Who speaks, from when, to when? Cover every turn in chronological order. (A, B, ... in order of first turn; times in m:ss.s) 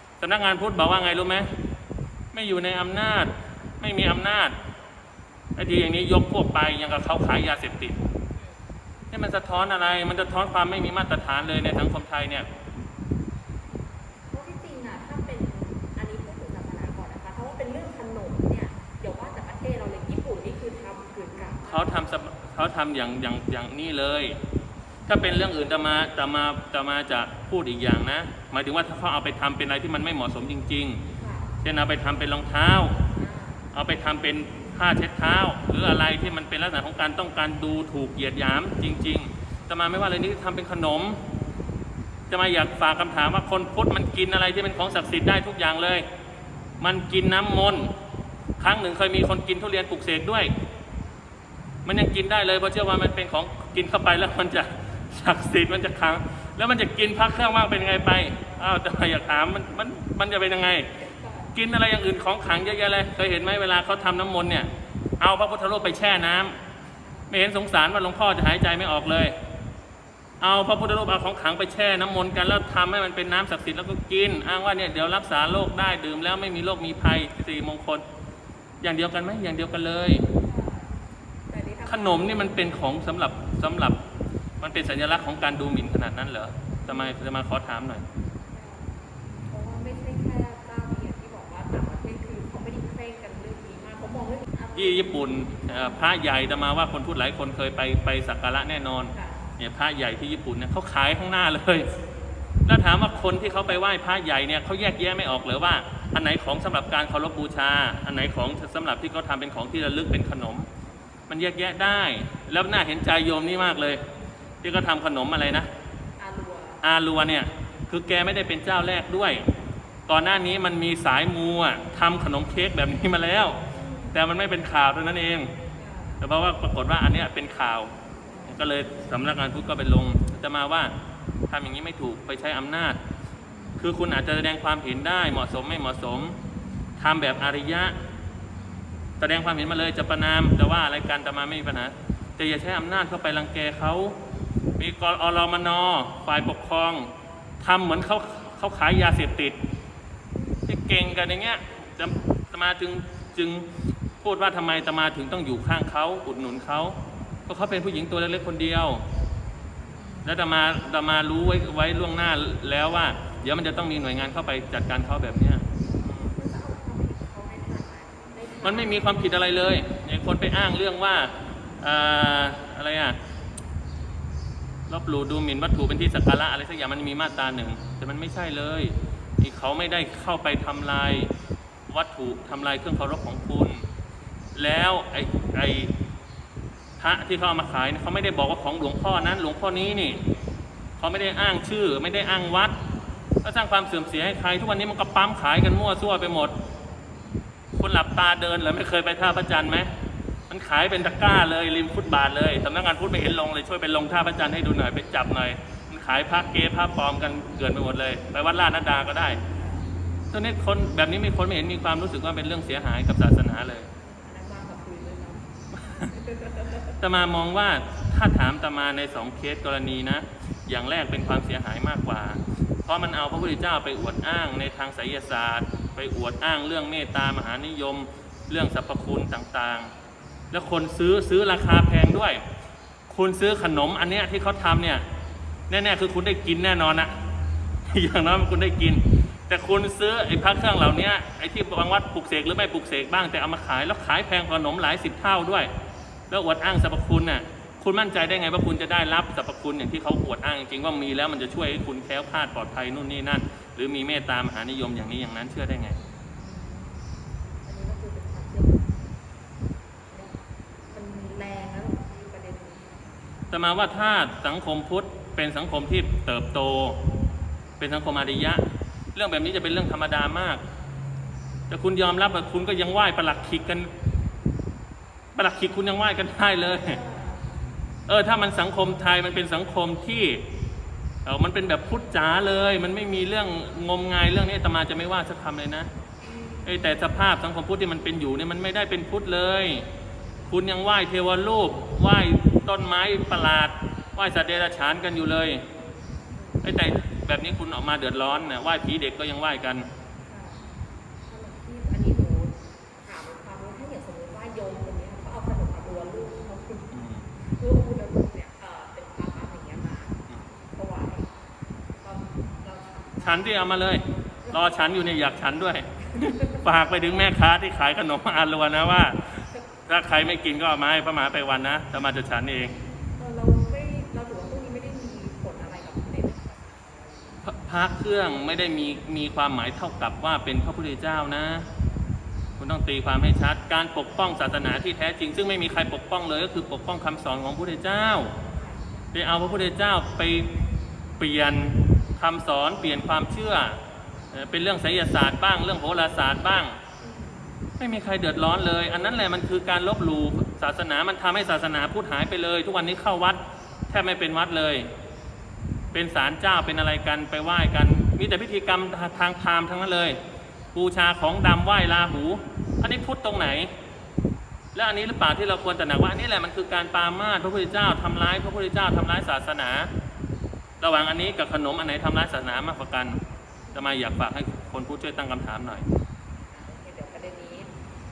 0:00.2-0:01.5 A
0:02.3-0:04.5 A
0:05.6-0:08.0 A
0:09.1-0:12.5 A
0:14.3-0:22.0 B
0:21.7-0:24.4 A
0:25.1-0:31.0 A
0:31.2-0:31.5 B
0:31.6-0:33.0 A
0:33.2-0:33.6 B
0:33.7-0:41.2 A
0:42.3-0:46.0 A
0:46.8-0:47.9 A
0:48.6-0:50.5 A
0:51.8-1:00.9 A
1:01.0-1:01.5 B
1:01.5-1:04.7 A
1:05.2-1:06.6 A
1:07.3-1:09.4 A
1:10.4-1:18.0 A
1:18.8-1:20.2 A
1:20.3-1:20.9 B
1:21.5-1:22.6 B
1:21.9-1:24.0 A
1:24.6-1:28.0 A
1:26.8-1:27.2 B
1:28.5-1:28.9 B
1:29.5-1:36.0 B
1:34.7-1:41.9 A
1:39.1-1:39.4 B
1:42.6-1:50.7 A
1:51.3-1:54.0 A
1:54.6-1:55.7 A
1:56.2-1:56.8 B
1:56.8-1:59.4 A
2:00.1-2:03.6 A
2:03.7-2:04.2 B
2:04.1-2:05.5 A
2:05.8-2:06.2 B
2:06.2-2:07.9 A
2:08.2-2:08.5 B
2:08.5-2:10.9 A
2:11.5-2:13.0 A
2:13.8-2:16.4 A
2:17.0-2:17.9 A
2:19.2-2:24.2 A
2:24.8-2:29.6 A
2:30.3-2:30.6 B
2:30.7-2:33.7 A
2:34.2-2:39.0 A
2:40.0-2:40.3 B
2:40.2-2:46.3 A
2:46.3-2:49.2 B
2:48.6-2:53.2 A
2:54.9-3:01.3 A
3:01.9-3:03.8 A
3:04.5-3:05.9 A
3:07.0-3:10.2 A
3:11.0-3:12.8 A
3:13.4-3:16.5 A
3:17.8-3:19.9 A
3:20.5-3:29.4 A
3:29.6-3:29.9 B
3:30.3-3:33.9 A
3:34.0-3:36.9 B
3:37.0-3:49.9 A
3:50.5-3:52.4 A
3:53.1-3:55.0 A
3:55.7-3:57.1 A
3:57.9-4:05.7 A
4:06.3-4:16.0 A
4:16.2-4:17.0 B
4:17.6-4:19.1 B
4:20.1-4:20.4 B
4:20.9-4:23.0 B
4:23.5-4:27.0 A
4:27.8-4:28.6 A
4:29.1-4:30.6 A
4:31.7-4:33.9 A
4:35.3-4:37.0 A
4:36.8-4:37.6 B
4:38.1-4:40.4 A
4:41.2-4:45.9 A
4:46.2-4:47.0 B
4:46.6-4:49.9 A
4:50.5-4:55.6 A
4:56.3-4:56.6 B
4:56.6-4:59.9 A
5:00.3-5:00.6 B
5:01.3-5:11.3 B
5:06.9-5:07.2 A
5:11.9-5:13.8 B
5:13.2-5:22.8 A
5:14.4-5:14.9 B
5:16.1-5:16.6 B
5:23.2-5:27.2 B
5:27.4-5:31.7 A
5:32.6-5:38.3 A
5:38.5-5:38.8 B
5:39.1-5:40.5 A
5:41.2-5:43.8 A
5:44.3-5:46.8 A
5:47.0-5:47.4 B
5:47.8-5:54.9 A
5:55.9-6:00.2 A
6:00.7-6:03.7 A
6:04.7-6:09.9 A
6:10.8-6:13.2 A
6:13.7-6:14.0 B
6:13.7-6:15.8 A
6:16.4-6:17.7 B